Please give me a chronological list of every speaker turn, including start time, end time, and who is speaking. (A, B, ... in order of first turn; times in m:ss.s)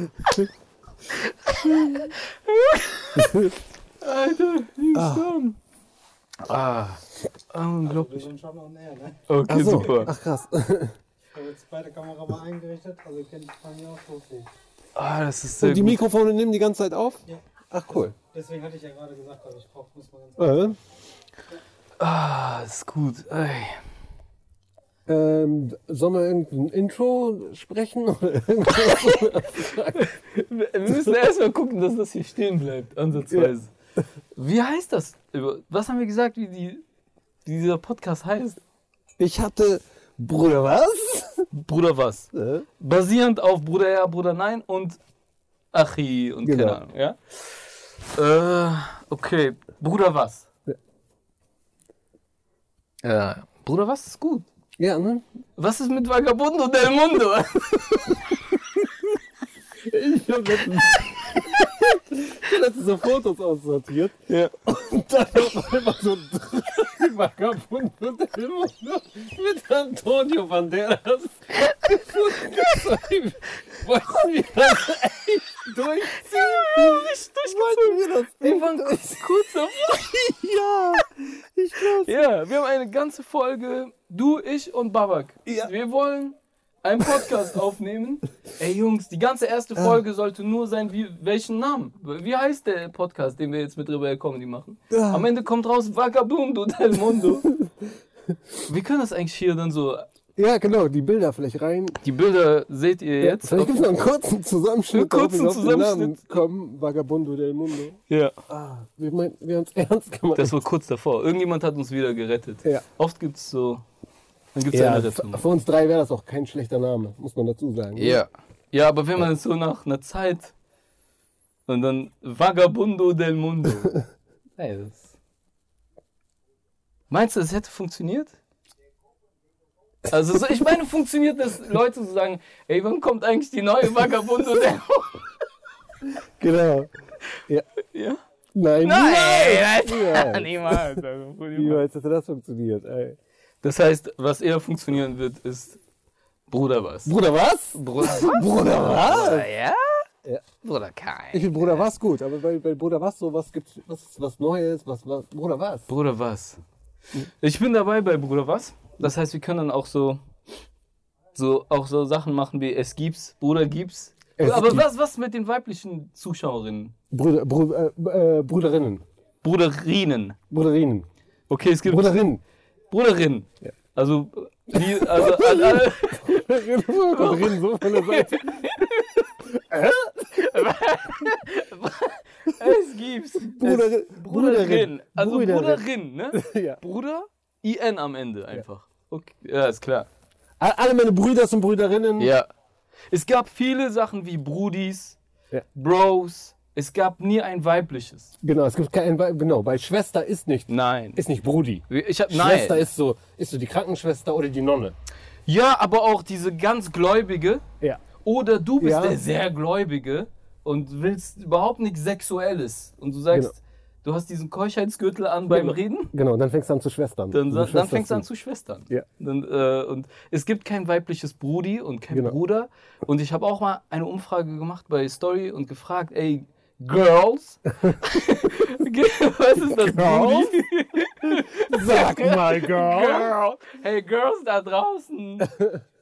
0:01.1-0:03.4 A
0:03.2-0:03.5 B
0:04.0-0:05.6 A
0:04.9-0:05.3 B
0:06.4-0:08.3 A
0:07.8-0:09.2 C
0:09.3-0:10.1 A
0:09.5-0:10.9 B
0:11.3-0:14.5 C
0:15.0-0:16.0 A
0:15.6-0:18.1 B
0:18.0-0:20.7 C
0:20.4-0:20.8 B
0:22.0-0:23.8 A
0:25.1-0:30.1 B
0:28.9-0:29.2 A
0:29.9-0:33.7 A
0:34.4-0:36.8 A
0:37.4-0:38.6 A
0:39.2-0:41.5 B
0:41.5-0:45.0 A
0:42.3-0:42.6 B
0:45.7-0:50.5 A
0:46.4-0:46.8 B
0:53.0-0:54.5 A
0:54.8-0:55.2 B
0:55.6-0:58.2 A
0:59.8-1:19.3 B
1:16.2-1:20.2 A
1:19.9-1:22.2 B
1:22.0-1:37.5 A
1:25.4-1:25.7 B
1:34.9-1:35.3 B
1:38.7-1:40.1 A
1:40.4-1:42.0 B
1:42.0-1:43.8 A
1:43.2-1:50.6 B
1:44.9-1:46.4 A
1:48.1-1:48.3 A
1:50.3-1:53.8 A
1:54.6-1:55.4 A
1:54.7-1:58.2 B
1:58.0-2:00.5 A
2:01.7-2:04.0 A
2:04.6-2:05.1 A
2:07.1-2:08.4 A
2:10.1-2:15.2 A
2:16.4-2:16.9 B
2:17.9-2:18.2 A
2:18.5-2:21.0 B
2:18.8-2:21.8 A
2:21.5-2:23.2 B
2:23.6-2:25.8 A
2:26.5-2:27.1 A
2:27.0-2:29.5 B
2:27.7-2:30.0 A
2:30.6-2:31.8 A
2:31.3-2:35.9 B
2:35.9-2:36.6 A
2:37.4-2:40.2 A
2:41.3-2:46.9 A
2:44.4-2:44.8 B
2:47.1-2:49.0 B
2:49.4-2:50.4 A
2:50.5-2:51.1 B
2:51.5-2:52.2 A
2:51.8-2:52.4 B
2:52.9-2:56.4 A
2:54.7-2:58.8 B
2:57.1-2:59.3 A
2:59.4-3:00.4 B
3:00.2-3:10.1 A
3:03.5-3:06.8 B
3:10.6-3:12.3 B
3:12.2-3:12.5 A
3:13.1-3:15.2 A
3:15.7-3:18.3 A
3:18.4-3:24.9 B
3:20.7-3:21.2 A
3:21.9-3:22.8 A
3:25.5-3:27.6 A
3:28.2-3:36.1 A
3:28.8-3:29.2 B
3:35.5-3:38.2 B
3:37.3-3:55.6 A
3:42.1-3:42.4 B
3:49.6-3:50.6 B
3:51.2-3:53.4 B
3:55.4-3:55.8 B